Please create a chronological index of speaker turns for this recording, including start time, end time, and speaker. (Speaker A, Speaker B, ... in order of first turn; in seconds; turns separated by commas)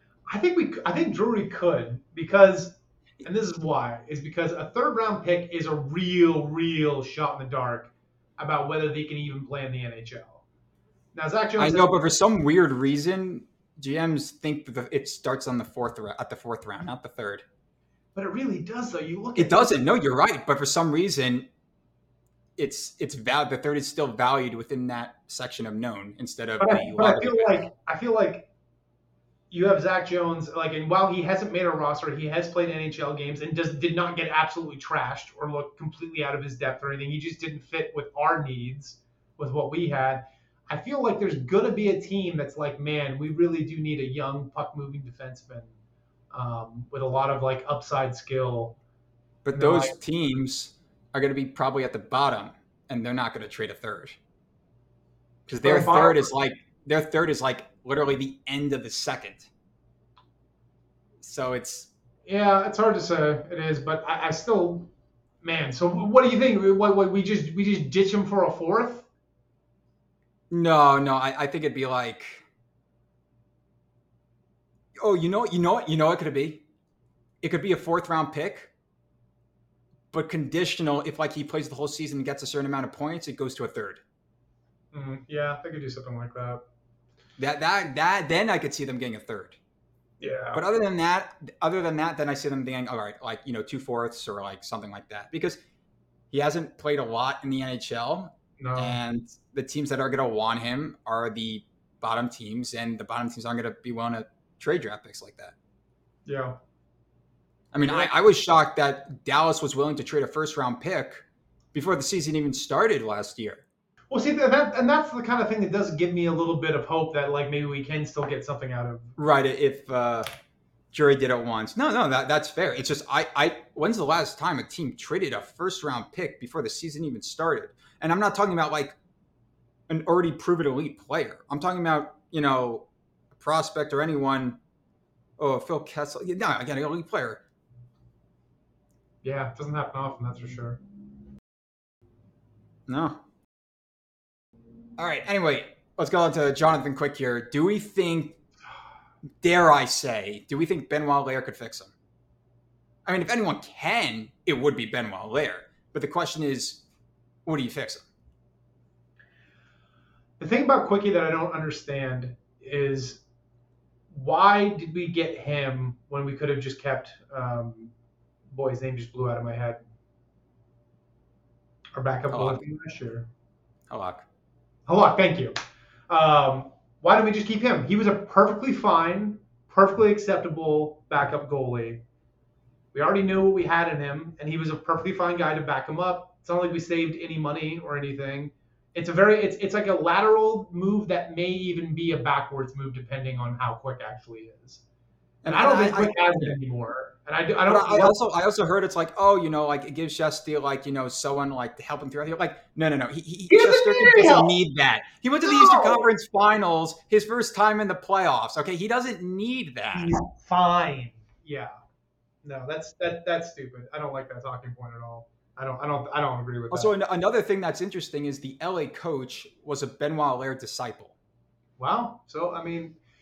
Speaker A: 0.3-10.4, Speaker A: 11.1-12.0, Speaker B: 11.6-17.4, Speaker A: 18.1-19.8, Speaker B: 19.4-21.5, Speaker B: 22.6-27.6, Speaker A: 26.6-28.5, Speaker A: 29.5-45.7, Speaker A: 46.3-48.8, Speaker B: 49.4-54.2, Speaker A: 49.5-50.0, Speaker B: 55.5-59.5, Speaker A: 55.6-56.3, Speaker B: 61.2-61.9, Speaker A: 62.2-64.9, Speaker A: 65.4-69.1, Speaker B: 70.5-72.4, Speaker B: 75.0-76.6, Speaker B: 77.4-78.7, Speaker B: 80.1-84.0, Speaker A: 84.9-86.6, Speaker B: 87.4-89.6, Speaker A: 90.2-90.6, Speaker B: 90.5-95.6, Speaker B: 96.3-105.5, Speaker A: 98.6-99.0, Speaker A: 106.2-106.5, Speaker B: 107.7-113.6, Speaker A: 107.9-108.1, Speaker A: 114.1-119.1, Speaker B: 119.2-120.3, Speaker B: 120.9-128.9, Speaker B: 129.9-134.6, Speaker B: 135.4-137.4, Speaker A: 139.2-140.8, Speaker B: 142.9-143.2, Speaker B: 145.0-148.4, Speaker B: 149.4-151.9, Speaker B: 153.1-156.8, Speaker B: 157.4-158.0, Speaker A: 160.4-163.2, Speaker A: 164.1-167.9, Speaker A: 168.5-169.8, Speaker A: 171.9-173.3, Speaker B: 172.3-172.6, Speaker B: 173.9-174.2, Speaker A: 174.9-175.5, Speaker A: 176.1-182.0, Speaker A: 182.9-194.8, Speaker B: 195.4-196.6, Speaker A: 195.4-198.2, Speaker B: 197.7-210.1, Speaker A: 203.5-204.6, Speaker A: 205.4-206.1, Speaker A: 209.9-211.7, Speaker A: 212.4-216.9, Speaker B: 216.7-221.1, Speaker A: 221.8-222.9